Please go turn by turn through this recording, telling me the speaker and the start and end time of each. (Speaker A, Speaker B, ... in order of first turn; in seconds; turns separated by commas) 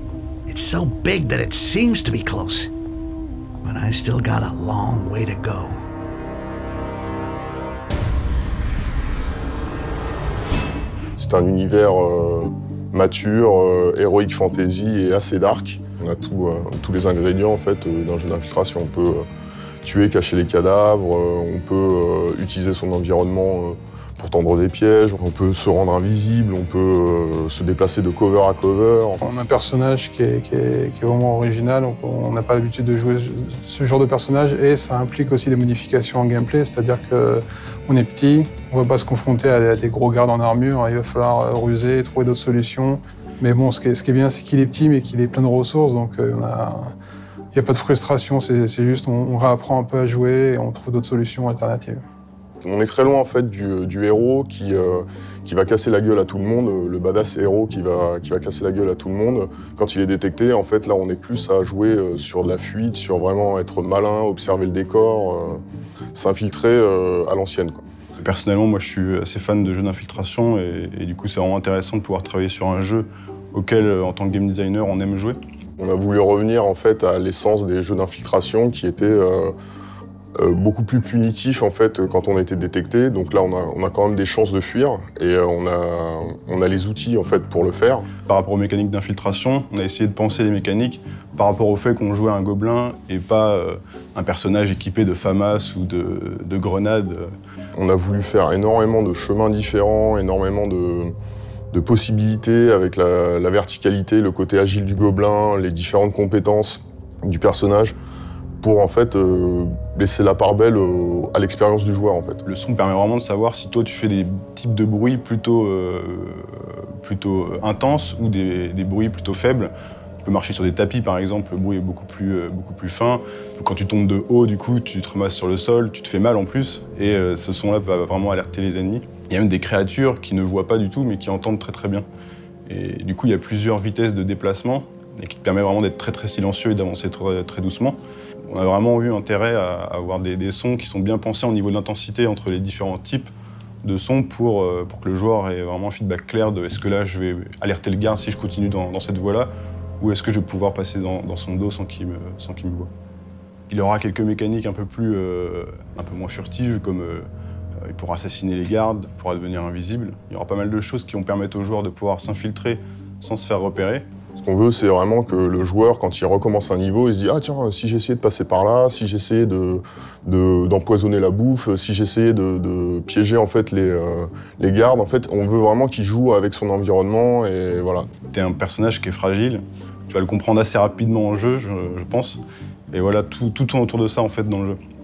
Speaker A: 0.5-2.7, Speaker A: 3.6-5.8, Speaker B: 11.2-19.3, Speaker B: 19.8-29.2, Speaker C: 29.2-46.9, Speaker C: 47.5-52.0, Speaker B: 52.6-65.6, Speaker B: 66.1-67.8, Speaker D: 68.2-75.4, Speaker B: 75.8-79.5, Speaker B: 80.4-88.1, Speaker D: 88.2-97.3, Speaker B: 97.8-101.1, Speaker B: 101.7-107.9, Speaker B: 108.6-112.4, Speaker D: 112.4-132.1, Speaker D: 132.7-143.3, Speaker D: 143.8-152.9, Speaker D: 153.7-157.3, Speaker D: 157.8-164.1, Speaker B: 164.4-178.1, Speaker D: 178.3-184.8